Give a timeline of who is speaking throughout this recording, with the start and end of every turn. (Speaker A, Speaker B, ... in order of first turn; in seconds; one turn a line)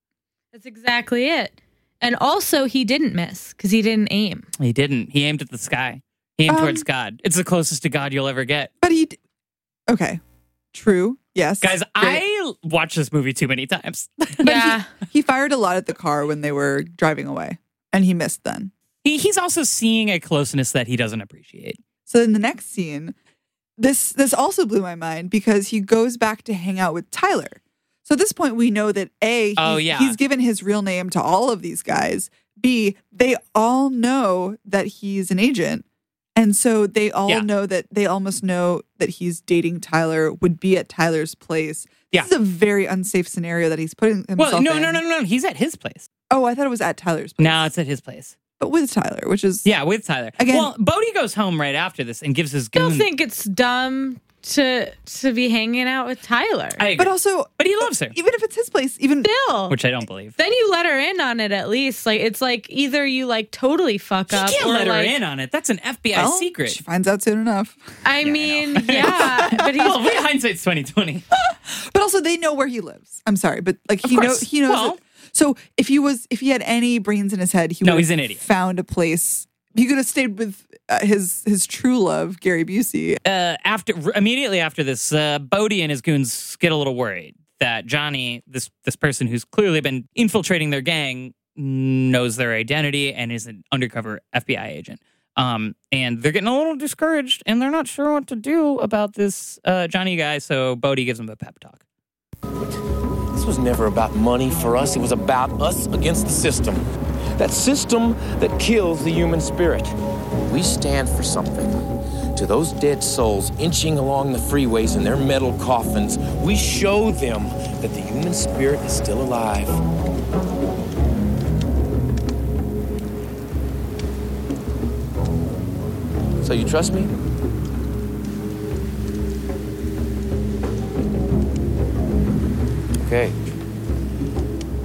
Speaker A: 0.5-4.5
Speaker B: 4.6-8.7
Speaker C: 6.5-6.8
Speaker C: 8.8-9.2
Speaker C: 9.9-10.2
Speaker C: 10.7-12.2
Speaker B: 11.6-14.7
Speaker A: 14.4-14.9
Speaker C: 14.4-18.7
Speaker B: 19.0-21.8
Speaker C: 22.1-23.1
Speaker C: 23.8-35.8
Speaker B: 29.6-30.2
Speaker C: 36.4-45.0
Speaker B: 44.4-46.1
Speaker C: 46.3-47.7
Speaker B: 47.4-48.3
Speaker C: 48.6-49.7
Speaker B: 49.6-53.1
Speaker C: 50.4-50.7
Speaker A: 52.7-56.8
Speaker B: 56.8-58.1
Speaker C: 57.0-59.3
Speaker A: 59.2-59.8
Speaker B: 59.7-60.3
Speaker A: 60.4-65.1
Speaker B: 64.3-66.8
Speaker C: 66.1-67.8
Speaker A: 68.0-70.0
Speaker B: 68.2-71.2
Speaker C: 68.9-70.0
Speaker C: 71.4-83.2
Speaker B: 74.0-75.0
Speaker B: 77.8-78.4
Speaker B: 83.2-101.8
Speaker D: 103.3-106.8
Speaker D: 107.4-110.0
Speaker D: 110.5-111.8
Speaker D: 112.3-119.8
Speaker D: 126.4-127.1
Speaker D: 133.0-133.3